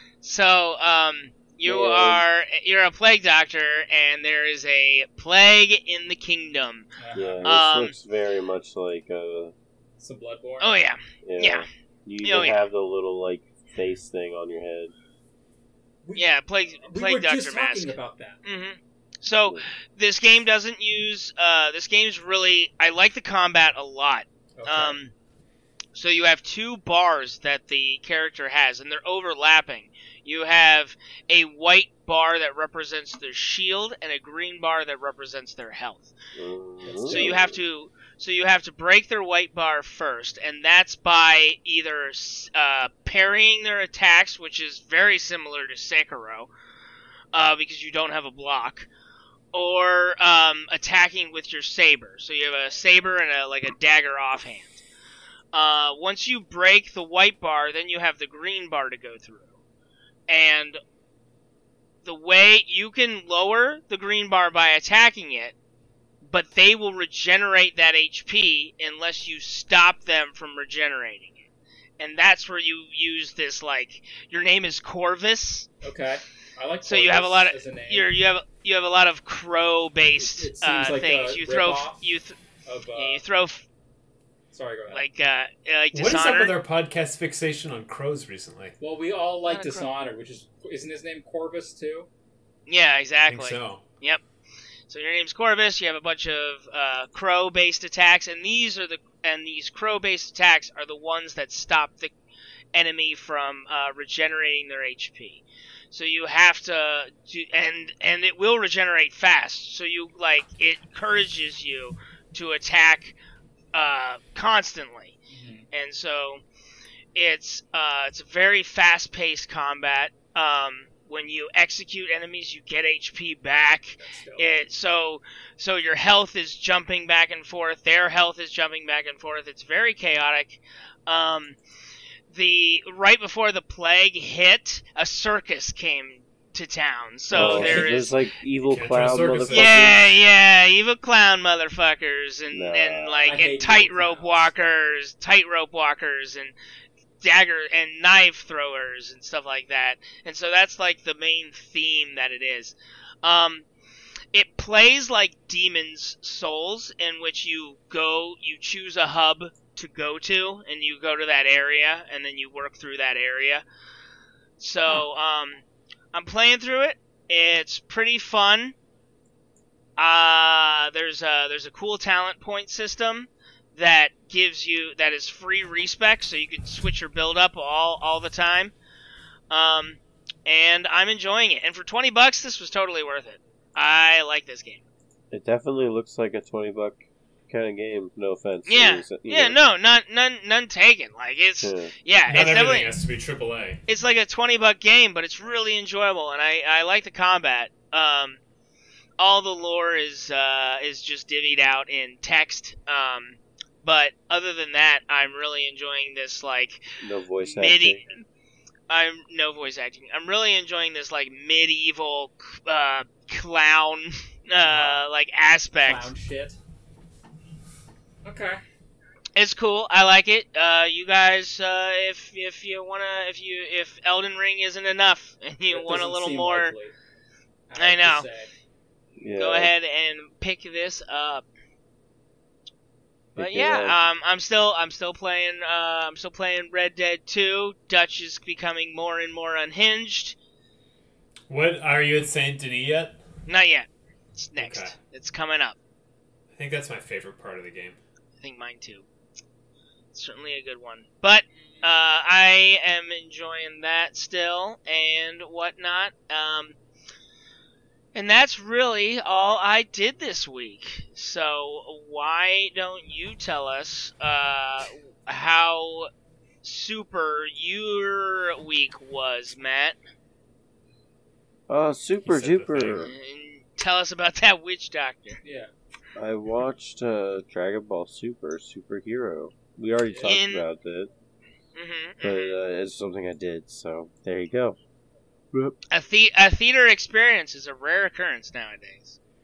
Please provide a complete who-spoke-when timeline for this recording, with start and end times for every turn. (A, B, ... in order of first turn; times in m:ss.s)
0:00.2-0:06.9 A
0:01.6-0:02.2 B
0:07.0-0:07.5 C
0:07.1-0:09.5 B
0:07.4-0:07.9 A
0:10.0-0:10.7 C
0:10.6-0:11.7 A
0:11.2-0:14.9 B
0:12.2-0:12.6 A
0:16.0-0:18.4 C
0:16.2-0:25.1 A
0:24.6-0:25.0 C
0:25.9-0:36.1 A
0:36.3-0:37.6 B
0:36.8-0:37.4 C
0:37.0-0:46.5 A
0:47.3-0:48.9 A
0:49.5-0:54.8 A
0:55.5-0:59.4 A
1:00.3-1:00.8 A
1:02.0-1:05.5 A
1:06.2-1:11.3 A
1:12.0-1:15.7 A
1:15.8-1:18.1 C
1:16.8-1:22.4 A
1:20.2-1:22.0 C
1:22.6-1:23.2 C
1:22.9-1:23.6 A
1:24.5-1:25.0 C
1:24.9-1:26.5 A
1:25.9-1:28.7 D
1:28.8-1:32.1 C
1:29.4-1:29.9 A
1:32.7-1:34.2 A
1:33.3-1:33.8 D
1:34.9-1:42.1 A
1:42.7-1:53.1 A
1:53.7-1:55.1 A
1:55.3-1:55.6 C
1:55.7-1:56.4 A
1:57.1-2:11.6 A
2:04.0-2:04.5 C
2:12.3-2:18.2 A
2:17.3-2:20.0 B
2:17.3-2:17.9 C
2:18.6-2:19.8 D
2:19.5-2:26.5 A
2:22.5-2:23.4 B
2:23.2-2:24.5 C
2:27.2-2:33.7 A
2:34.3-2:43.6 A
2:44.6-2:48.7 A
2:50.0-2:58.7 A
2:59.5-3:04.8 A
3:05.3-3:09.6 B
3:08.7-3:12.9 A
3:11.6-3:11.9 B
3:12.3-3:13.8 D
3:13.9-3:18.4 A
3:19.2-3:26.8 A
3:27.0-3:28.0 B
3:27.4-3:28.2 A
3:28.9-3:36.1 A
3:34.6-3:35.0 C
3:35.8-3:36.6 C
3:38.2-3:38.6 C
3:39.4-3:46.7 A
3:45.7-3:46.9 C
3:47.7-3:48.5 C
3:47.8-3:48.3 A
3:49.2-3:49.7 B
3:49.3-3:51.4 A
3:53.4-3:54.0 B
3:53.4-4:00.3 A
4:01.5-4:03.2 D
4:03.5-4:05.8 A
4:04.6-4:05.0 D
4:06.5-4:08.0 D
4:08.4-4:09.0 A
4:10.1-4:16.8 A
4:11.5-4:11.9 C
4:18.1-4:26.1 A
4:26.6-4:30.0 A
4:31.7-4:33.1 B
4:32.2-4:33.1 D
4:33.0-4:35.4 A
4:35.4-4:35.7 C
4:36.1-4:41.1 B
4:40.0-4:40.4 C
4:40.2-4:40.6 A
4:41.8-4:42.6 A
4:42.2-4:44.8 B
4:45.5-4:45.8 B
4:45.9-4:49.2 A